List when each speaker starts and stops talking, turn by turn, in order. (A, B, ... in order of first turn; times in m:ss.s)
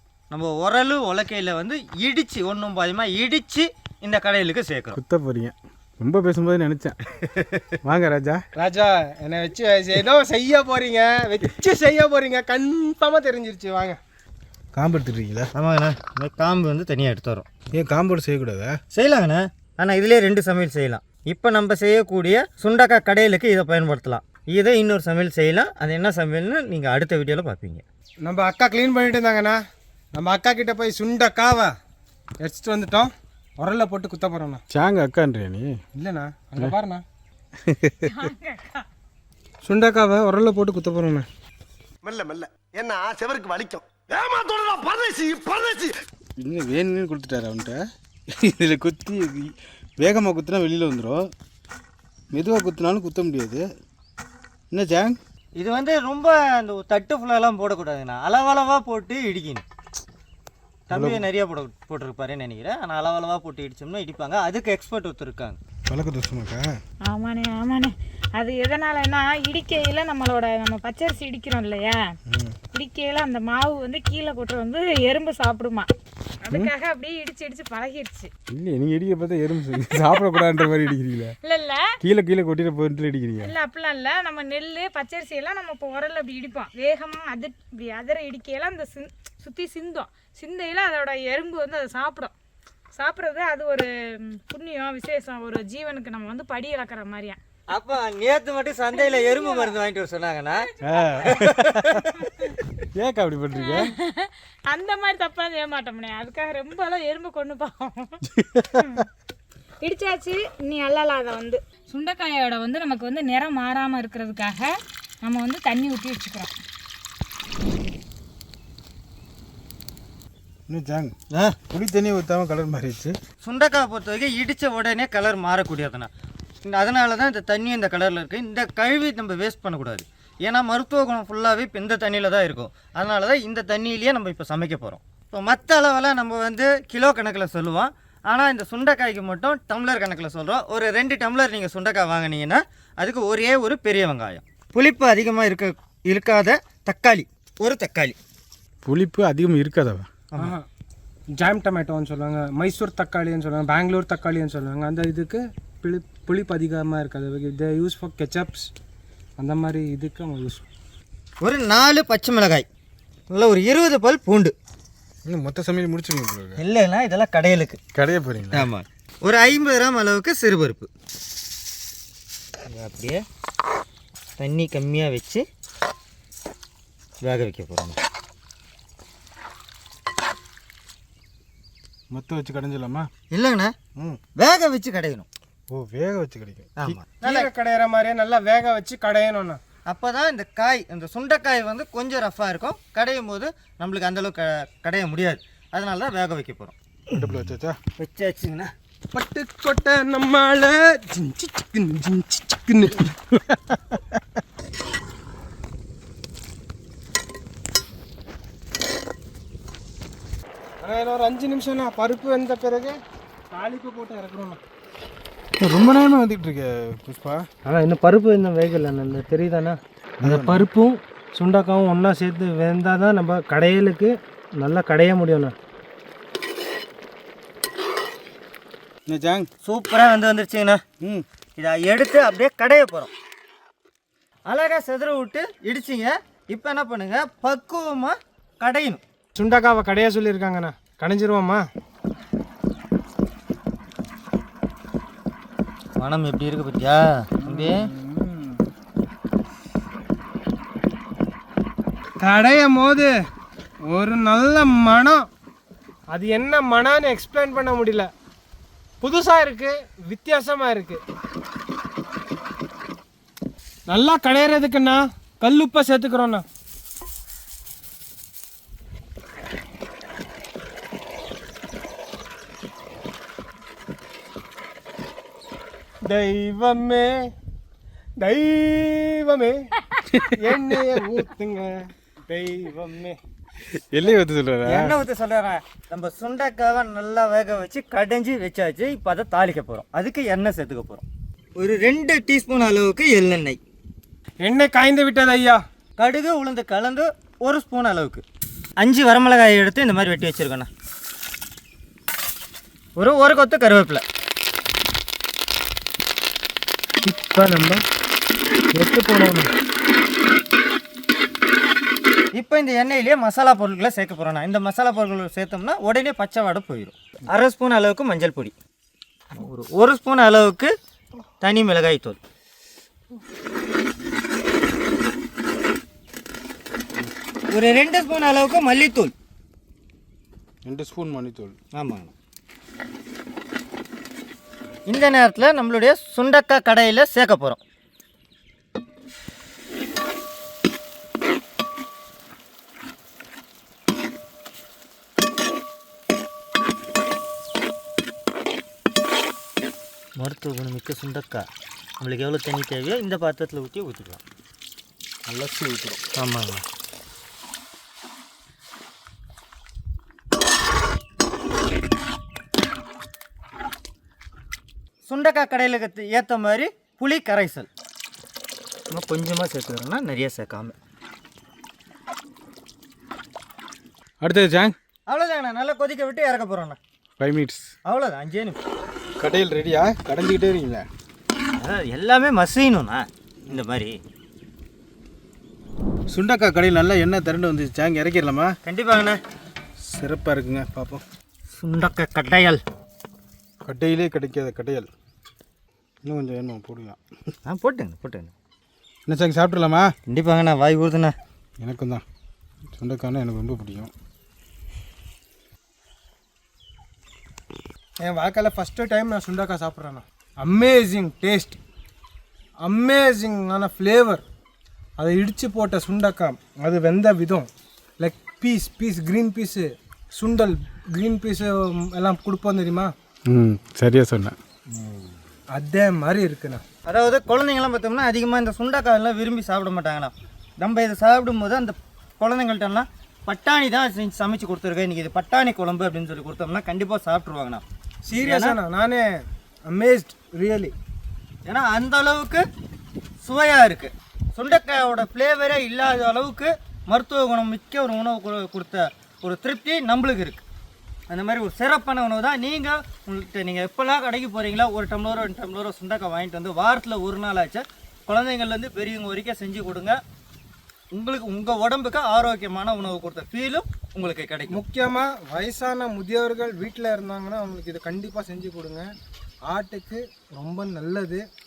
0:00.3-0:05.0 A
0:04.9-0:07.0 B
0:07.4-0:07.6 A
0:07.8-0:08.4 B
0:08.6-0:14.0 C
0:14.8-0:15.5 B
0:15.5-0:17.5 A
0:17.7-0:18.8 B
0:18.9-0:27.8 A
0:28.2-0:29.6 C
0:30.2-0:31.7 C
0:32.4-0:34.6 C
0:34.7-0:35.8 B
0:36.0-0:37.0 C
0:37.6-0:38.1 B
0:38.1-0:38.8 D
0:39.6-0:41.3 C
0:42.0-0:45.9 E
0:46.4-0:51.3 B
0:52.3-0:53.7 B
0:54.7-0:55.2 B
0:55.6-0:59.6 A
1:00.9-1:05.6 A
1:00.9-1:01.2 B
1:05.9-1:06.7 B
1:07.0-1:12.0 D
1:12.3-1:12.6 B
1:12.7-1:15.9 D
1:16.4-1:18.3 D
1:18.5-1:21.4 B
1:21.4-1:21.9 D
1:22.0-1:23.5 B
1:23.4-1:32.3 D
1:32.9-1:37.4 D
1:37.7-1:40.7 A
1:39.0-1:39.7 D
1:40.8-1:42.1 B
1:41.3-1:42.2 A
1:43.0-1:43.9 B
1:43.6-1:48.2 D
1:48.3-1:48.8 B
1:49.8-1:56.5 D
2:00.7-2:01.1 B
2:01.3-2:01.6 A
2:01.7-2:03.2 B
2:03.4-2:06.1 A
2:06.6-2:28.2 A
2:28.8-2:30.1 B
2:30.4-2:30.7 C
2:31.3-2:38.7 C
2:39.4-2:40.6 C
2:41.4-2:42.7 A
2:43.3-2:44.6 A
2:45.3-2:46.6 B
2:46.6-2:47.8 A
2:48.0-2:48.7 B
2:48.5-2:50.9 A
2:52.7-2:53.2 A
2:54.4-2:55.4 A
2:57.2-2:58.0 A
3:02.1-3:03.1 B
3:03.3-3:03.7 A
3:04.4-3:05.3 A
3:05.7-3:07.0 B
3:06.8-3:07.5 A
3:07.2-3:09.6 C
3:09.9-3:16.7 A
3:17.1-3:17.8 B
3:18.0-3:18.7 A
3:19.1-3:23.1 C
3:23.5-3:24.0 B
3:30.8-3:33.0 C
3:33.5-3:34.6 C
3:35.6-3:37.5 B
3:37.6-3:45.6 C
3:40.2-3:40.6 B
3:49.1-3:49.5 B
3:49.6-3:50.8 A
3:51.6-3:53.1 A
3:54.5-3:59.0 A
3:59.4-4:01.6 C
4:06.0-4:07.9 A
4:07.7-4:08.5 C
4:12.2-4:13.1 C
4:13.9-4:15.3 C
4:16.1-4:18.1 C
4:19.0-4:21.0 C
4:23.9-4:26.4 C
4:36.0-4:37.3 C
4:38.2-4:39.6 C
4:40.2-4:43.2 C
4:43.7-4:44.9 B
4:44.7-4:51.0 A
4:51.6-4:53.6 A
4:54.4-4:55.6 C
4:56.0-4:58.2 A
4:58.8-5:00.7 A
5:03.0-5:04.0 A
5:07.0-5:07.8 C
5:08.7-5:09.5 C
5:12.4-5:18.5 A
5:19.4-5:20.7 A
5:21.4-5:22.2 A
5:27.5-5:29.1 A
5:30.6-5:31.6 B
5:31.7-5:32.1 A
5:34.9-5:37.6 A
5:50.2-5:51.5 A
5:52.0-5:54.2 A
5:55.3-5:56.0 B
5:56.2-5:56.6 A
6:05.1-6:07.7 A
6:08.9-6:10.8 A
6:14.2-6:14.8 B
6:15.1-6:16.8 A
6:17.2-6:17.7 B
6:17.8-6:18.6 A
6:19.2-6:20.9 B
6:21.6-6:24.0 A
6:26.1-6:28.6 B
6:28.6-6:29.2 A
6:29.8-6:31.0 B
6:31.6-6:32.6 A
6:33.6-6:34.9 B
6:36.0-6:37.0 B
6:37.5-6:38.3 A
6:39.1-6:39.9 B
6:40.1-6:41.2 A
6:41.6-6:42.0 B
6:42.8-6:43.9 B
6:48.0-6:51.6 C
6:52.6-6:54.2 C
6:55.0-6:57.5 C
6:58.0-7:02.9 C
7:03.3-7:04.4 B
7:05.5-7:06.6 C
7:06.9-7:17.6 A
7:18.1-7:19.1 C
7:18.2-7:18.6 A
7:19.7-7:20.8 C
7:21.5-7:22.4 A
7:23.2-7:30.4 A
7:31.1-7:40.0 A
7:40.9-7:44.6 A
7:44.5-7:48.9 C
7:49.5-7:51.2 C